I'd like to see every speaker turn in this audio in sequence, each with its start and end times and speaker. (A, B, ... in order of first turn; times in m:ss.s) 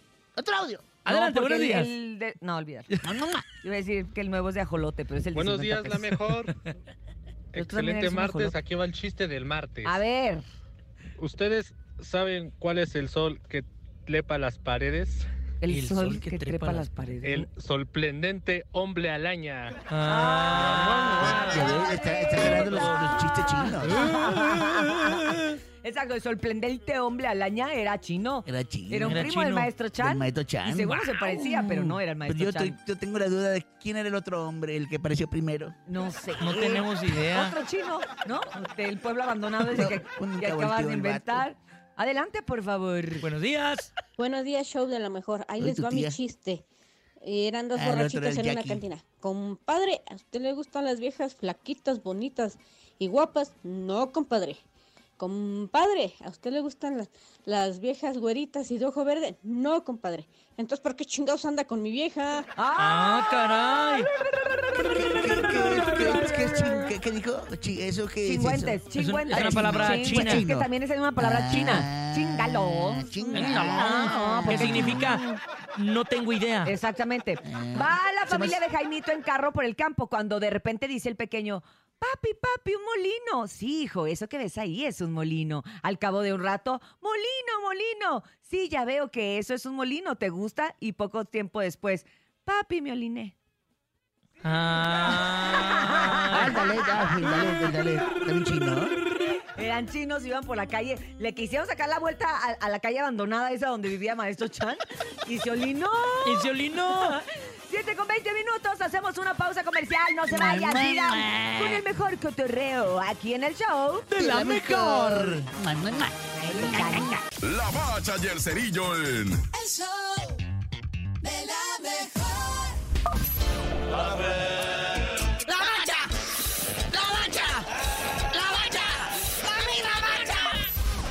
0:00.4-0:00.9 A
0:01.0-0:01.9 B
0:01.0-0:02.9 C
0:03.0-0:03.4 A
0:03.6-0:06.1 C
0:05.3-0:06.5 D
0:07.5-0:10.0 D
0:07.5-0:08.6 C
0:09.8-0:10.4 C
0:11.2-0:15.2 D
0:15.6-0:17.5 C
0:15.7-0:16.9 B
0:17.2-0:19.8 D
0:19.9-0:21.3 B
0:20.0-0:32.8 C
0:20.6-0:21.5 D
0:21.2-0:24.0 A
0:24.4-0:25.1 B
0:28.4-0:29.3 A
0:29.0-0:29.7 B
0:30.0-0:31.4 A
0:32.2-0:35.8 A
0:35.9-0:43.2 C
0:36.4-0:37.5 B
0:39.6-0:41.5 A
0:43.2-0:43.9 B
0:44.2-0:46.6 E
0:45.6-0:46.2 A
0:47.2-0:54.6 E
0:47.7-0:48.8 A
0:55.2-1:02.5 E
1:02.6-1:06.7 C
1:02.8-1:04.1 B
1:04.8-1:06.4 B
1:05.0-1:15.1 A
1:08.2-1:15.4 C
1:09.0-1:10.4 B
1:13.3-1:15.2 B
1:15.8-1:16.7 B
1:16.6-1:33.3 C
1:17.4-1:18.6 A
1:34.4-1:36.5 B
1:35.9-1:36.2 C
1:36.3-1:38.9 A
1:39.6-1:55.3 C
1:46.2-1:47.1 B
1:50.3-1:51.8 A
1:54.1-1:55.0 B
1:54.2-1:57.2 A
1:56.3-1:57.2 C
1:57.4-1:59.4 F
2:05.4-2:06.1 G
2:06.9-2:07.7 G
2:08.3-2:10.5 G